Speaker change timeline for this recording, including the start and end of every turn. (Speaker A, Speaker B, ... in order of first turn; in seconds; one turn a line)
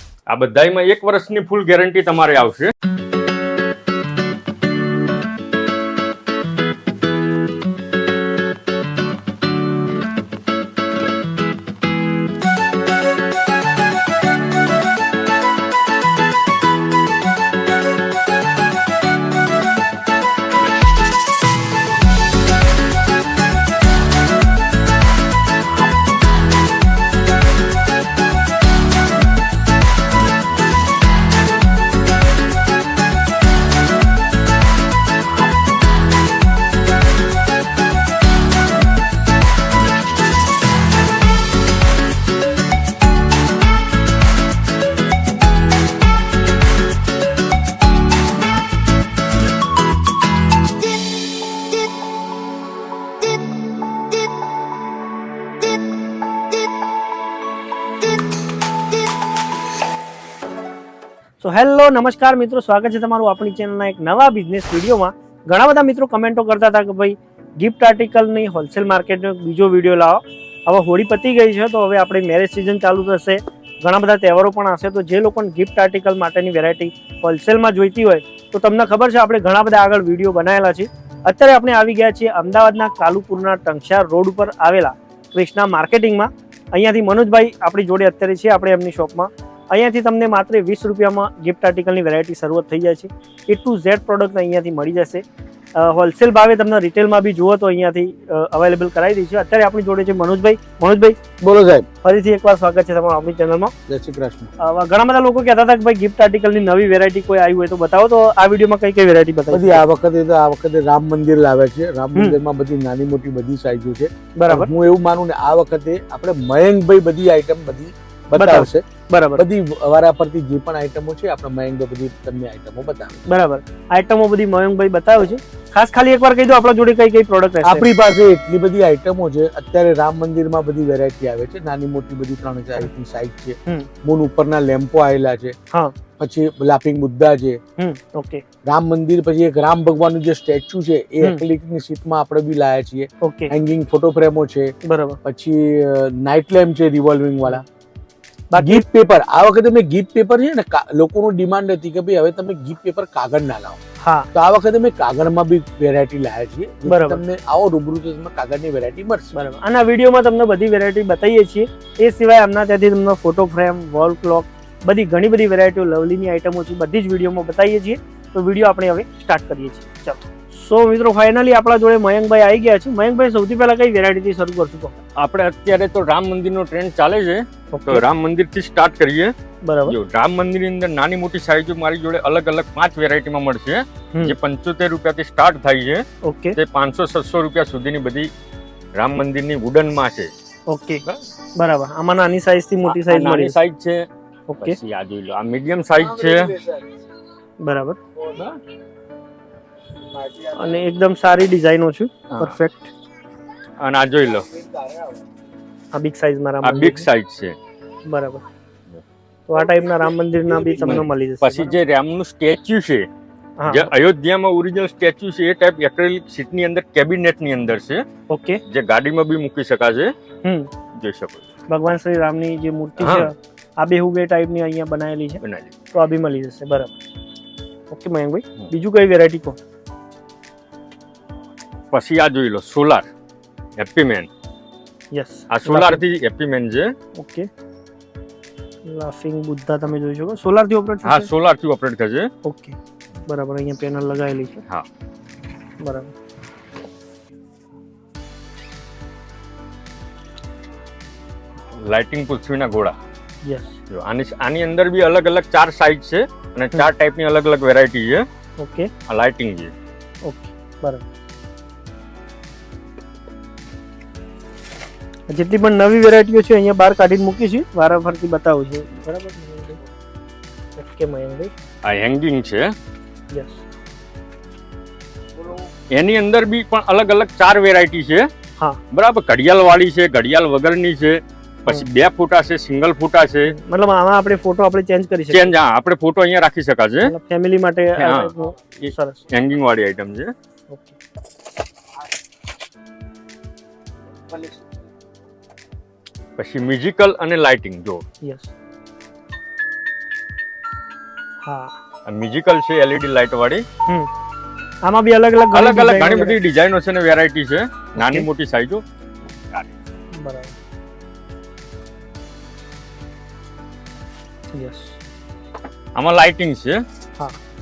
Speaker A: 0.3-2.7
Speaker B: 61.4-95.2
Speaker B: 95.8-101.2
Speaker C: 101.4-101.9
Speaker B: 102.0-103.7
Speaker C: 103.9-104.5
Speaker B: 104.6-109.8
Speaker C: 109.5-118.8
Speaker B: 114.4-114.7
Speaker B: 118.4-119.4
Speaker C: 119.3-123.2
Speaker B: 123.3-127.9
Speaker C: 127.6-135.6
Speaker C: 136.2-137.6
Speaker B: 137.8-138.4
Speaker C: 138.6-147.6
Speaker B: 143.2-143.5
Speaker B: 144.8-145.2
Speaker B: 148.5-148.8
Speaker C: 148.6-153.8
Speaker B: 154.0-154.3
Speaker C: 154.3-159.3
Speaker B: 156.8-157.2
Speaker B: 159.3-175.0
Speaker A: 175.2-179.3
Speaker B: 177.7-178.0
Speaker B: 179.6-180.0
Speaker A: 179.8-186.0
Speaker B: 186.2-186.6
Speaker A: 186.5-188.3
Speaker A: 188.9-190.3
Speaker B: 190.7-191.0
Speaker B: 191.6-193.6
Speaker A: 192.8-194.0
Speaker B: 194.5-194.8
Speaker A: 194.6-196.6
Speaker C: 196.2-196.8
Speaker B: 197.6-198.0
Speaker C: 200.2-200.6
Speaker B: 200.6-202.9
Speaker A: 202.3-202.6
Speaker A: 203.8-204.4
Speaker B: 205.9-207.1
Speaker A: 206.6-207.6
Speaker B: 208.1-208.4
Speaker B: 209.5-211.8
Speaker A: 210.8-213.1
Speaker B: 213.6-213.9
Speaker A: 213.7-218.0
Speaker B: 218.3-218.6
Speaker A: 218.7-220.1
Speaker B: 220.4-220.7
Speaker A: 221.0-221.5
Speaker B: 221.7-225.4
Speaker A: 223.0-223.3
Speaker A: 225.4-225.7
Speaker B: 225.9-226.9
Speaker B: 227.9-229.6
Speaker A: 231.9-233.1
Speaker A: 233.8-234.3
Speaker B: 235.1-236.0
Speaker A: 235.5-236.9
Speaker B: 237.2-237.5
Speaker B: 238.8-241.3
Speaker A: 241.0-242.3
Speaker B: 242.4-244.6
Speaker B: 245.8-246.1
Speaker A: 251.8-252.9
Speaker B: 253.4-253.8
Speaker A: 253.9-258.2
Speaker B: 258.6-258.9
Speaker A: 259.1-259.7
Speaker B: 260.2-261.0
Speaker B: 265.3-269.8
Speaker B: 270.8-271.5
Speaker A: 271.8-272.7
Speaker B: 273.3-273.6
Speaker A: 275.9-278.3
Speaker A: 278.9-283.5
Speaker B: 283.5-285.5
Speaker A: 285.3-287.1
Speaker B: 287.0-289.2
Speaker A: 288.0-290.3
Speaker B: 290.7-290.9
Speaker A: 296.4-298.0
Speaker B: 298.2-298.5
Speaker B: 301.4-301.7
Speaker A: 302.1-303.6
Speaker B: 304.9-306.4
Speaker A: 305.5-308.8
Speaker B: 307.9-308.3
Speaker B: 310.2-310.5
Speaker B: 314.5-314.9
Speaker A: 315.9-316.8